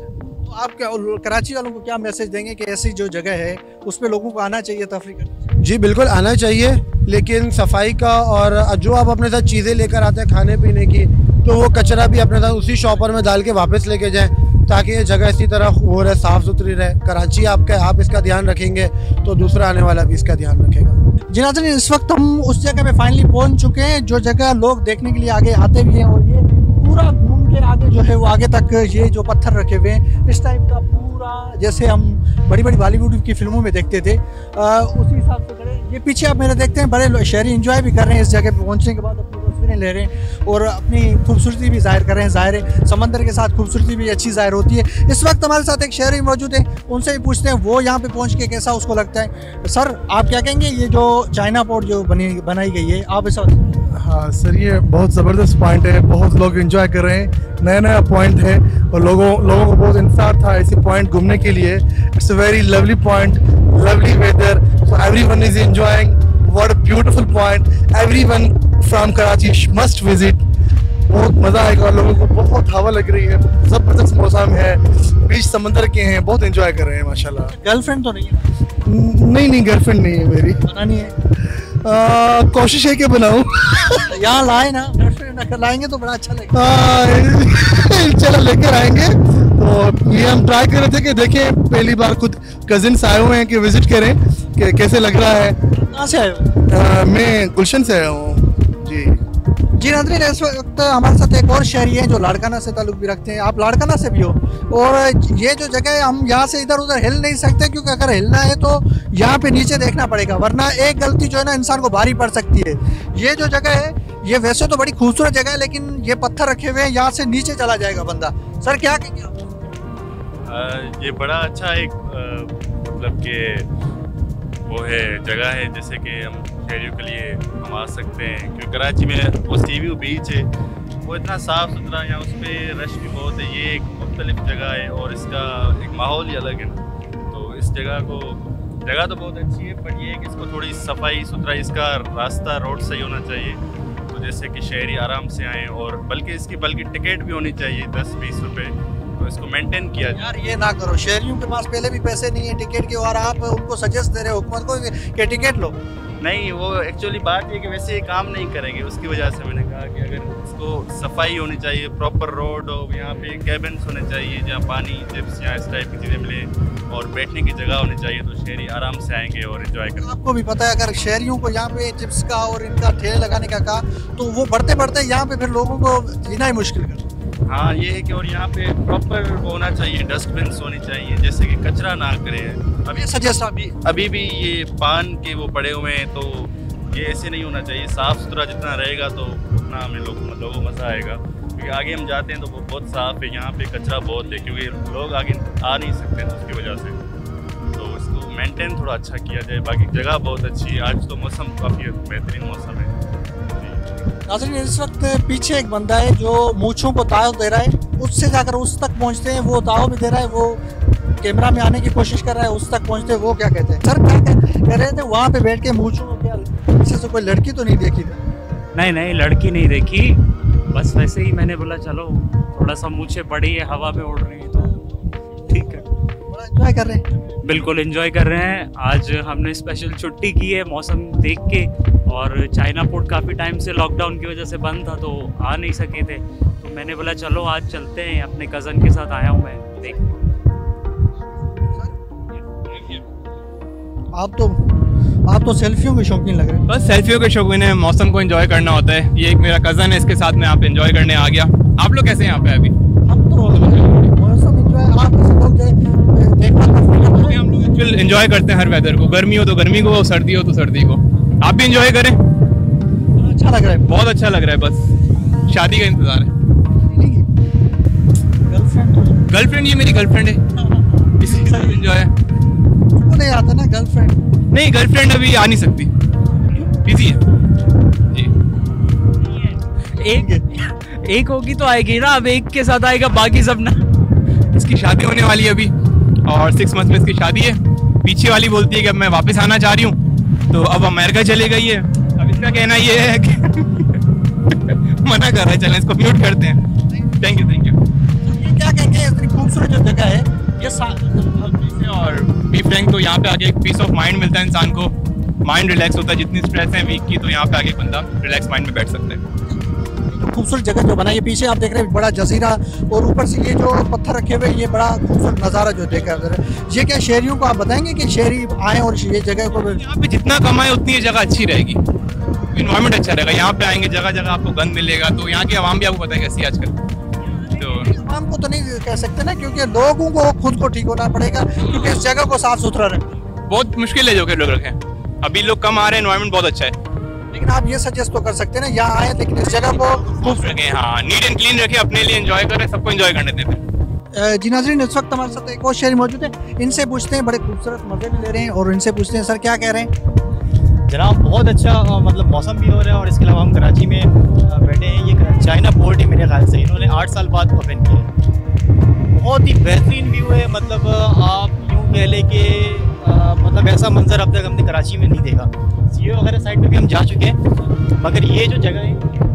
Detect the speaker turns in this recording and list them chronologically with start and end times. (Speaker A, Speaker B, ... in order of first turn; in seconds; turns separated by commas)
Speaker A: 0.4-5.5, Speaker B: 5.6-21.0, Speaker A: 21.3-53.7, Speaker C: 54.0-70.4, Speaker C: 71.1-77.5, Speaker A: 77.6-78.6, Speaker C: 78.8-80.6, Speaker A: 80.6-81.1, Speaker C: 81.8-83.9, Speaker A: 84.0-86.8, Speaker C: 86.5-95.6, Speaker A: 95.7-96.5, Speaker C: 96.7-99.2, Speaker A: 99.8-119.5, Speaker D: 120.5-123.7, Speaker D: 124.7-130.5, Speaker D: 131.0-136.8, Speaker D: 137.3-143.6, Speaker D: 144.1-150.2, Speaker A: 150.1-155.8, Speaker D: 156.2-170.1, Speaker A: 170.0-177.1, Speaker D: 177.5-182.9, Speaker A: 182.9-183.7, Speaker D: 183.6-197.0, Speaker D: 197.7-202.9, Speaker D: 203.6-203.8, Speaker A: 204.3-210.6, Speaker A: 211.2-218.2, Speaker E: 218.7-220.2, Speaker E: 220.7-224.7, Speaker E: 225.5-225.8, Speaker A: 226.3-227.0, Speaker E: 227.4-240.0, Speaker F: 242.6-243.0, Speaker A: 244.1-244.6, Speaker A: 245.3-246.6, Speaker F: 246.7-252.7, Speaker A: 253.1-257.4, Speaker F: 253.4-254.1, Speaker F: 257.1-262.2, Speaker A: 263.2-263.9, Speaker F: 263.9-264.9, Speaker F: 265.5-266.3, Speaker A: 266.9-267.3, Speaker A: 268.5-269.2, Speaker F: 269.3-270.4, Speaker F: 271.2-272.1, Speaker A: 271.2-271.8, Speaker A: 273.0-274.2, Speaker F: 274.5-275.9, Speaker F: 276.8-277.2, Speaker A: 280.1-280.4, Speaker E: 280.2-283.8, Speaker F: 284.6-285.7, Speaker F: 286.2-290.0, Speaker F: 290.5-294.0, Speaker F: 294.5-296.6, Speaker F: 297.2-297.8, Speaker A: 298.2-301.9, Speaker F: 301.9-304.9, Speaker F: 305.4-309.2, Speaker A: 310.0-319.8, Speaker F: 319.6-321.8, Speaker F: 322.5-326.7, Speaker F: 327.6-327.9, Speaker A: 327.8-333.1, Speaker F: 333.5-336.7, Speaker A: 337.3-340.5, Speaker F: 340.1-343.6, Speaker A: 344.1-349.9, Speaker G: 350.9-358.1, Speaker G: 359.1-367.4, Speaker G: 367.9-369.2